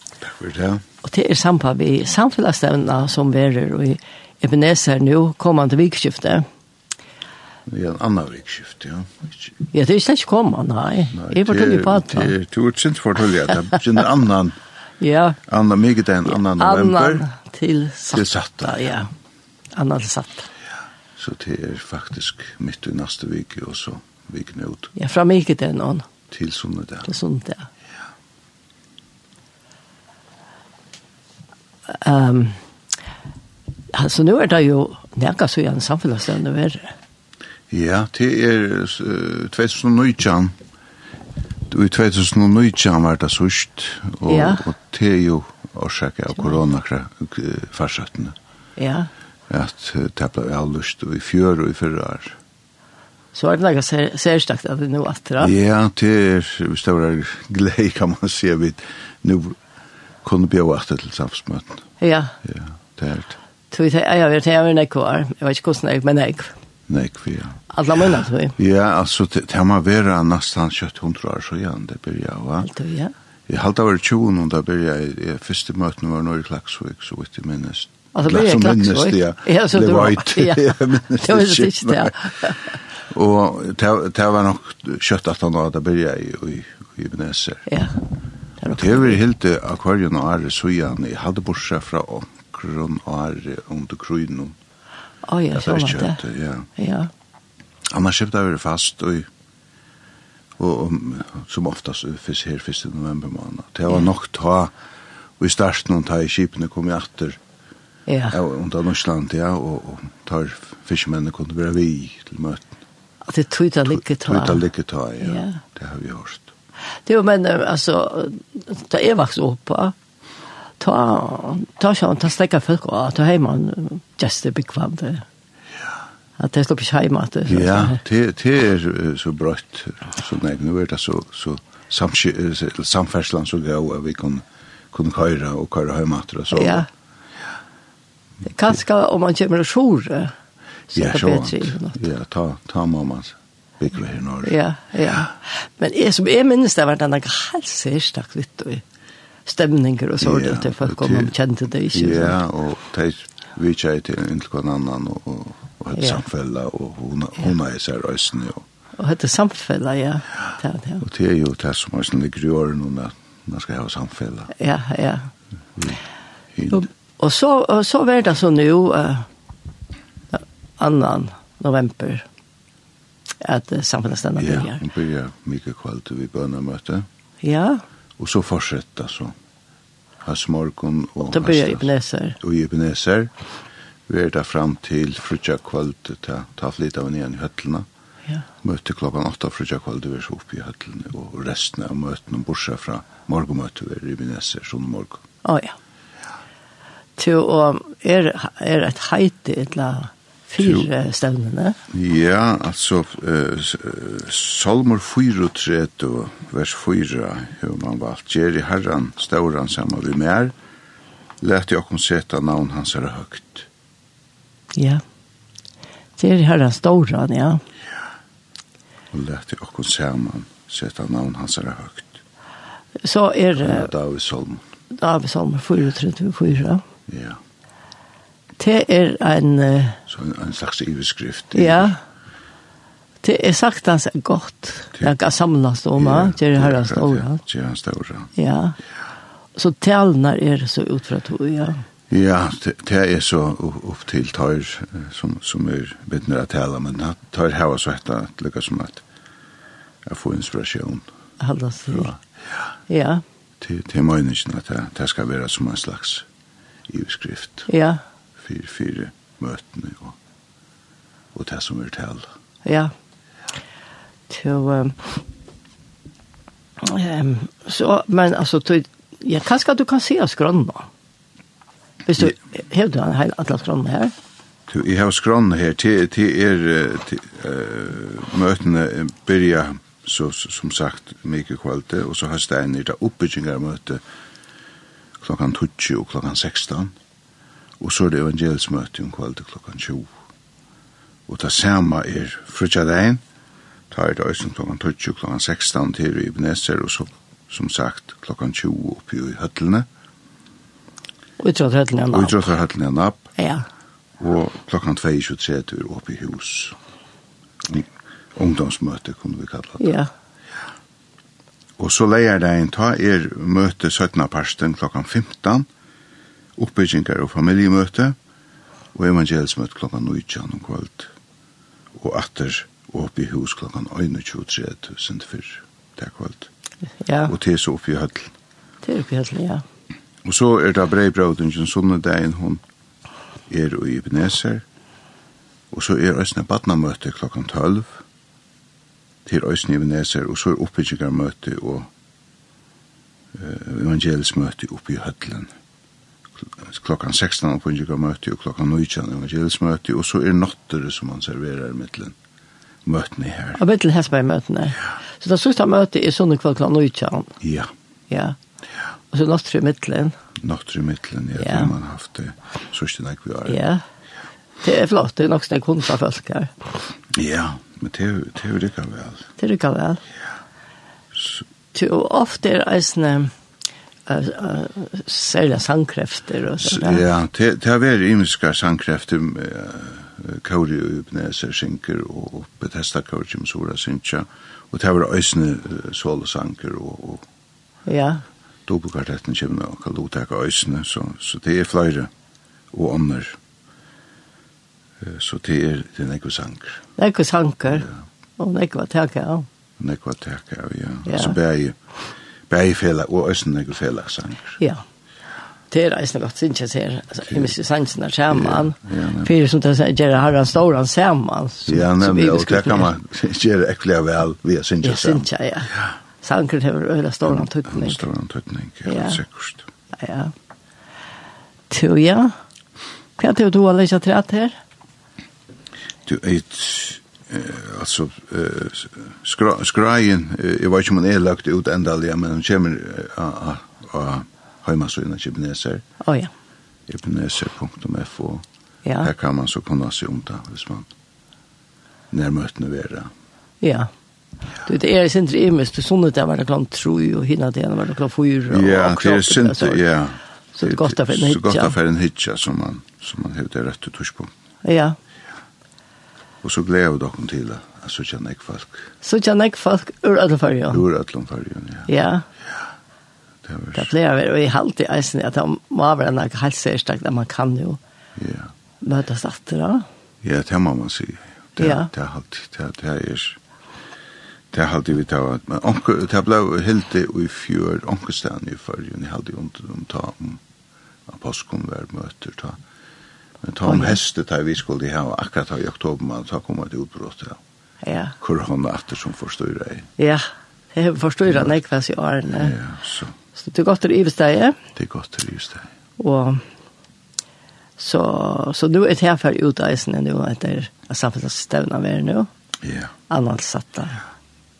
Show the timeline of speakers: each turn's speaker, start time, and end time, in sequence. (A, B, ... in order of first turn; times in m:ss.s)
0:00.2-0:00.8 A
0:01.0-0:06.4 B
0:07.7-0:09.5 A
0:09.7-0:12.3 B
0:11.1-0:14.6 A
0:15.0-0:15.4 B
0:15.5-0:17.2 A
0:16.3-0:19.1 B
0:18.1-0:18.9 A
0:19.7-0:20.5 B
0:21.2-0:24.9 A
0:24.9-0:26.1 B
0:26.3-0:27.1 A
0:27.0-0:27.7 B
0:31.9-0:32.6 B
0:33.9-0:36.9 B
0:37.7-0:40.5 A
0:41.7-0:48.3 A
0:44.3-0:44.6 B
0:48.8-0:49.1 B
0:49.5-0:52.4 A
0:53.3-0:55.5 B
0:55.4-0:59.6 A
1:00.2-1:01.8 A
1:02.0-1:02.3 B
1:02.4-1:03.4 A
1:03.7-1:06.5 B
1:06.9-1:07.6 A
1:07.7-1:08.6 B
1:08.6-1:12.7 A
1:12.6-1:13.1 B
1:13.5-1:22.3 A
1:18.1-1:22.6 B
1:23.1-1:27.7 A
1:27.7-1:27.9 B
1:28.6-1:29.2 B
1:28.7-1:34.6 A
1:35.2-1:36.2 B
1:35.5-1:36.7 A
1:36.8-1:37.1 B
1:37.9-1:39.3 A
1:40.6-1:44.7 A
1:45.4-1:47.4 A
1:48.1-1:48.4 B
1:48.3-1:52.7 A
1:53.3-1:54.6 B
1:53.9-1:56.5 A
1:55.2-1:55.6 B
1:57.0-1:59.9 B
2:00.8-2:05.2 B
2:06.4-2:08.0 B
2:07.5-2:16.8 A
2:16.5-2:16.9 B
2:18.4-2:20.3 B
2:20.9-2:22.0 B
2:20.9-2:24.6 A
2:24.4-2:28.8 B
2:29.4-2:32.4 B
2:30.2-2:31.3 A
2:31.9-2:38.6 A
2:39.0-2:41.0 B
2:41.0-2:44.5 A
2:44.5-2:45.3 B
2:45.8-2:46.0 A
2:46.5-2:46.9 A
2:46.7-2:49.3 B
2:50.3-2:52.2 B
2:53.4-2:54.8 B
2:54.4-2:57.0 A
2:57.4-2:57.8 B
2:58.2-2:59.3 A
3:00.2-3:03.3 A
3:01.3-3:02.4 B
3:04.1-3:07.8 A
3:08.6-3:15.2 A
3:15.4-3:15.7 B
3:17.2-3:21.8 B
3:20.6-3:20.9 A
3:21.9-3:30.5 A
3:31.4-3:33.7 A
3:34.7-3:35.0 B
3:36.2-3:37.6 B
3:39.1-3:42.2 A
3:43.0-3:43.9 B
3:43.6-3:44.6 A
3:44.9-3:46.8 B
3:47.1-3:47.4 A
3:48.6-3:50.0 B
3:50.1-3:51.9 A
3:51.5-3:52.0 B
3:53.2-3:57.4 B
3:56.0-3:58.3 A
3:58.4-3:58.8 B
3:59.6-4:01.8 B
4:02.1-4:09.0 A
4:10.0-4:11.1 A
4:11.4-4:12.1 B
4:11.9-4:12.2 A
4:12.9-4:13.2 B
4:13.6-4:16.2 A
4:16.9-4:17.7 A
4:17.7-4:18.0 B
4:18.4-4:20.2 A
4:21.3-4:22.3 A
4:22.6-4:22.9 B
4:24.3-4:25.1 B
4:26.8-4:30.9 B
4:32.0-4:34.1 B
4:34.7-4:44.0 A
4:45.2-4:46.9 A
4:47.8-4:50.1 A
4:51.3-4:53.2 A
4:53.9-4:59.8 A
5:01.4-5:02.5 B
5:02.1-5:03.3 A
5:03.4-5:03.6 B
5:04.2-5:06.8 A
5:07.6-5:10.0 A
5:09.8-5:10.1 B
5:11.8-5:15.7 A
5:16.6-5:18.1 A
5:18.9-5:21.1 A
5:21.9-5:26.5 A
5:27.0-5:27.3 B
5:27.3-5:28.3 A
5:28.8-5:29.6 B
5:30.2-5:32.6 A
5:33.5-5:34.6 A
5:35.7-5:38.0 A
5:39.2-5:41.9 A
5:43.3-5:45.5 A
5:46.5-5:52.1 A
5:52.8-5:53.6 A
5:53.6-5:57.3 B
5:57.4-5:57.7 A
5:58.1-5:58.4 B
5:59.1-6:00.2 B
6:00.4-6:03.6 A
6:01.4-6:01.7 B
6:03.5-6:03.8 B
6:04.6-6:06.5 B
6:07.1-6:09.3 A
6:09.4-6:10.0 B
6:11.7-6:13.3 B
6:14.1-6:17.0 B
6:16.6-6:27.2 A
6:27.9-6:28.2 B
6:28.7-6:32.1 A
6:32.7-6:33.4 A
6:35.0-6:36.8 A
6:37.0-6:39.4 B
6:39.8-6:41.8 A
6:41.1-6:41.4 B
6:42.5-6:44.6 A
6:45.7-6:52.9 B
6:48.3-6:49.3 A
6:51.7-6:55.8 A
6:54.8-6:58.1 B
6:57.2-6:59.7 A
6:58.8-6:59.2 B
6:59.9-7:00.3 B
7:01.7-7:02.3 B
7:03.2-7:04.6 B
7:06.0-7:15.8 A
7:16.0-7:16.3 B
7:16.9-7:18.4 A
7:19.0-7:20.9 A
7:22.1-7:23.1 A
7:23.6-7:23.9 B
7:24.6-7:29.8 B
7:28.5-7:34.3 A
7:30.5-7:31.7 B
7:34.6-7:35.0 B
7:36.4-7:38.9 A
7:39.0-7:40.8 B
7:40.7-7:41.9 A
7:41.9-7:42.2 B
7:43.4-7:43.9 A
7:43.7-7:47.8 B
7:48.2-7:48.5 A
7:48.8-7:49.8 B
7:50.2-7:53.4 A
7:51.6-7:51.9 B
7:54.5-8:00.4 A
8:01.1-8:02.6 A
8:03.4-8:07.4 A
8:03.6-8:04.0 B
8:07.8-8:08.1 B
8:08.2-8:09.9 A
8:10.0-8:12.6 B
8:12.3-8:13.1 A
8:13.4-8:14.6 B
8:14.8-8:15.7 A
8:16.0-8:16.4 B
8:17.8-8:22.3 B
8:22.6-8:22.9 A
8:23.1-8:24.0 B